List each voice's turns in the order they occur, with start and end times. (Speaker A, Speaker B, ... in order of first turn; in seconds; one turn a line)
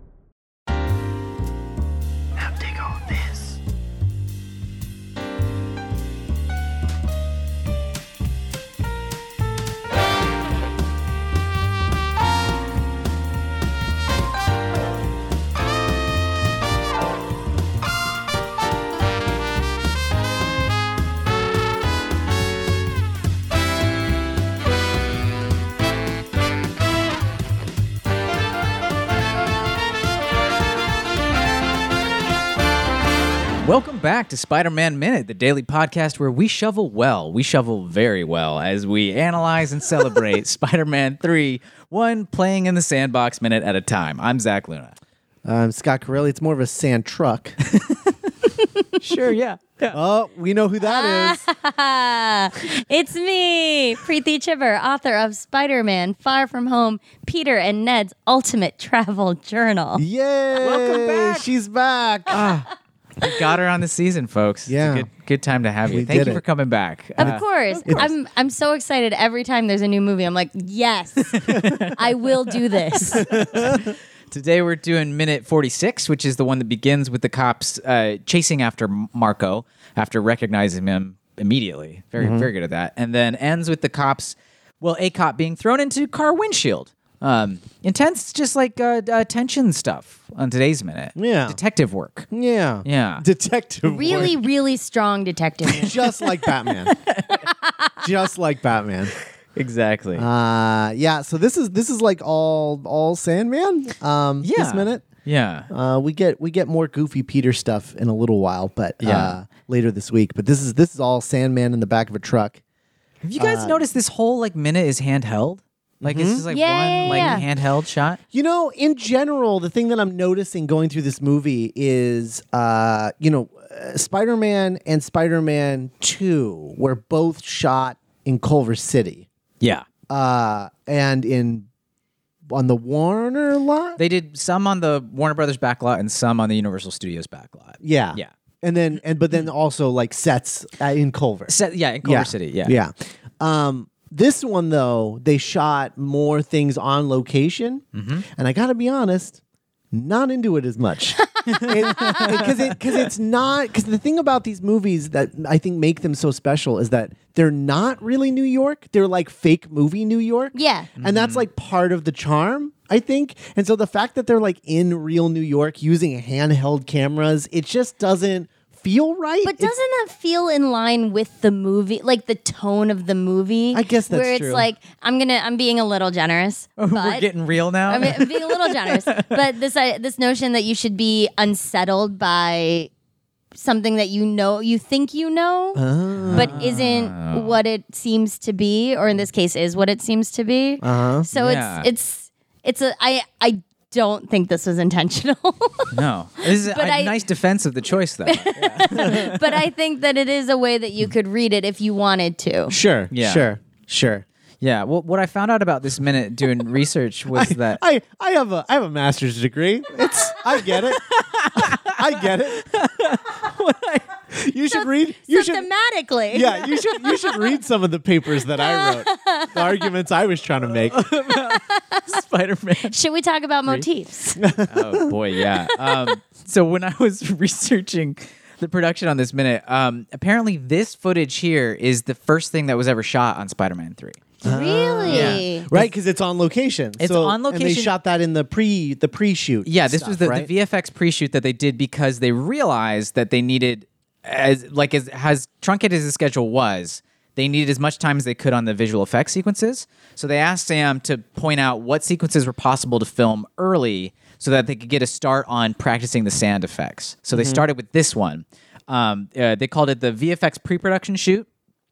Speaker A: 33.6-45.0
Speaker B: 45.5-47.6
Speaker A: 47.7-48.2
Speaker A: 49.0-50.0
Speaker B: 49.9-51.5
Speaker C: 50.8-60.0
Speaker B: 60.0-62.5
Speaker A: 60.6-61.5
Speaker A: 62.3-62.7
Speaker A: 63.2-68.1
Speaker B: 64.7-65.1
Speaker B: 65.9-66.4
Speaker B: 67.2-68.1
Speaker C: 67.2-73.4
Speaker A: 71.3-92.3
Speaker B: 71.5-71.9
Speaker B: 73.1-74.0
Speaker B: 82.2-82.5
Speaker B: 91.2-91.6
Speaker B: 92.3-94.4
Speaker A: 92.8-93.3
Speaker C: 93.8-95.9
Speaker B: 95.8-97.0
Speaker A: 96.2-97.5
Speaker C: 97.5-97.9
Speaker B: 98.0-99.1
Speaker A: 99.5-100.3
Speaker B: 100.2-105.0
Speaker A: 104.4-105.7
Speaker B: 105.7-112.6
Speaker A: 109.0-109.4
Speaker A: 113.2-118.2
Speaker B: 113.4-113.8
Speaker B: 116.0-116.4
Speaker C: 116.5-117.5
Speaker B: 117.0-117.5
Speaker B: 118.3-129.3
Speaker A: 129.6-129.9
Speaker B: 130.1-131.7
Speaker B: 132.5-134.0
Speaker A: 134.0-138.3
Speaker B: 137.8-149.4
Speaker A: 141.5-142.8
Speaker A: 147.9-148.3
Speaker B: 149.9-169.7
Speaker C: 151.4-152.4
Speaker A: 151.5-152.8
Speaker C: 160.5-160.9
Speaker A: 161.0-161.4
Speaker C: 169.4-177.3
Speaker B: 173.7-174.7
Speaker A: 176.8-179.4
Speaker C: 177.9-182.9
Speaker C: 183.5-185.8
Speaker B: 185.8-186.6
Speaker A: 186.2-187.6
Speaker C: 186.3-197.2
Speaker B: 190.8-191.3
Speaker A: 191.3-191.9
Speaker A: 195.9-199.6
Speaker C: 198.3-202.8
Speaker B: 202.7-204.2
Speaker A: 203.1-203.4
Speaker A: 204.6-207.8
Speaker B: 207.3-212.7
Speaker A: 210.7-214.1
Speaker B: 214.3-215.7
Speaker C: 215.3-217.0
Speaker B: 216.3-221.0
Speaker C: 218.6-219.8
Speaker A: 220.9-222.9
Speaker C: 221.3-222.2
Speaker C: 222.8-224.4
Speaker B: 224.4-225.1
Speaker A: 224.7-234.3
Speaker C: 234.4-235.7
Speaker B: 234.4-240.5
Speaker A: 235.1-235.9
Speaker A: 237.0-237.9
Speaker A: 239.7-261.5
Speaker B: 257.3-257.6